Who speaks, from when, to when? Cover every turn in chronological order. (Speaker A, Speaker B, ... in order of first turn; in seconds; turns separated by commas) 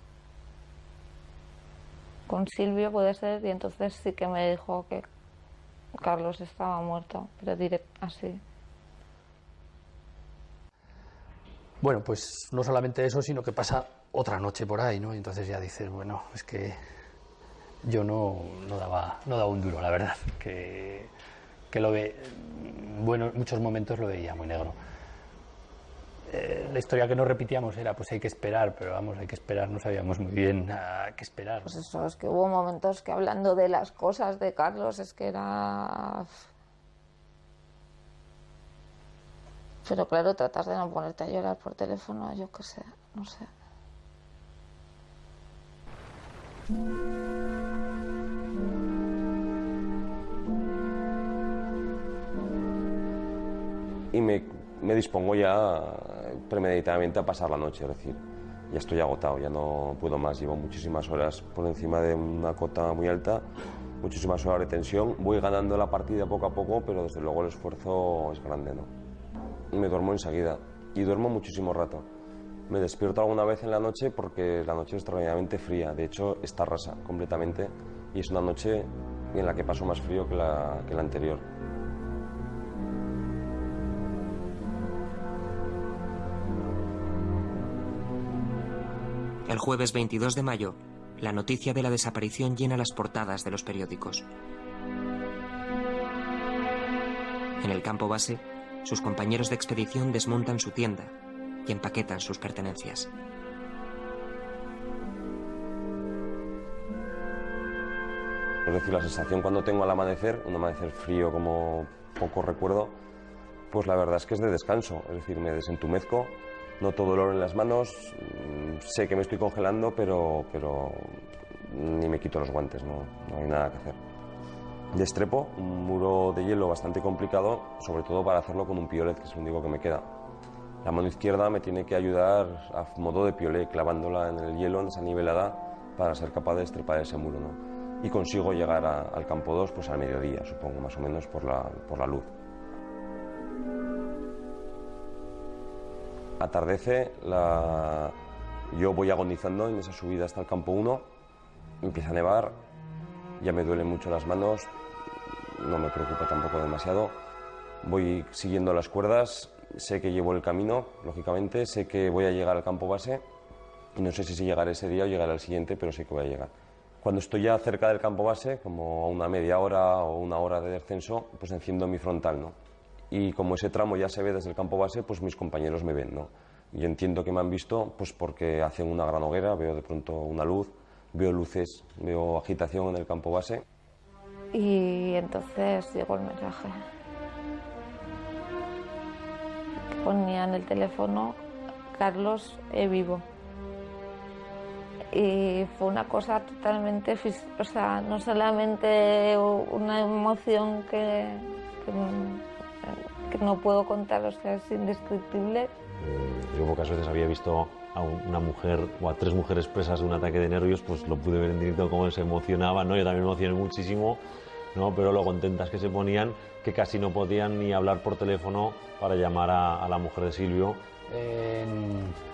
Speaker A: 2.3-5.1, Speaker A: 6.0-8.4, Speaker B: 11.8-16.8, Speaker B: 17.8-21.1, Speaker B: 21.7-24.8, Speaker B: 26.3-31.7, Speaker A: 31.6-36.5, Speaker A: 39.8-43.5, Speaker C: 54.1-63.4, Speaker C: 64.0-68.9, Speaker C: 69.7-72.1, Speaker C: 72.7-81.5, Speaker D: 89.5-94.3, Speaker D: 97.6-101.1, Speaker D: 101.6-103.1, Speaker C: 108.6-113.0, Speaker C: 113.7-124.0, Speaker C: 124.9-130.1, Speaker C: 130.8-142.3, Speaker C: 146.4-148.2, Speaker C: 148.7-151.1, Speaker C: 151.8-152.6, Speaker C: 153.4-154.7, Speaker C: 155.6-157.2, Speaker C: 157.8-163.2, Speaker C: 163.9-172.6, Speaker C: 173.1-183.6, Speaker A: 184.5-186.8, Speaker A: 190.0-191.4, Speaker A: 191.9-193.2, Speaker A: 195.1-205.7, Speaker E: 206.0-214.2, Speaker E: 214.7-220.8, Speaker B: 221.1-222.2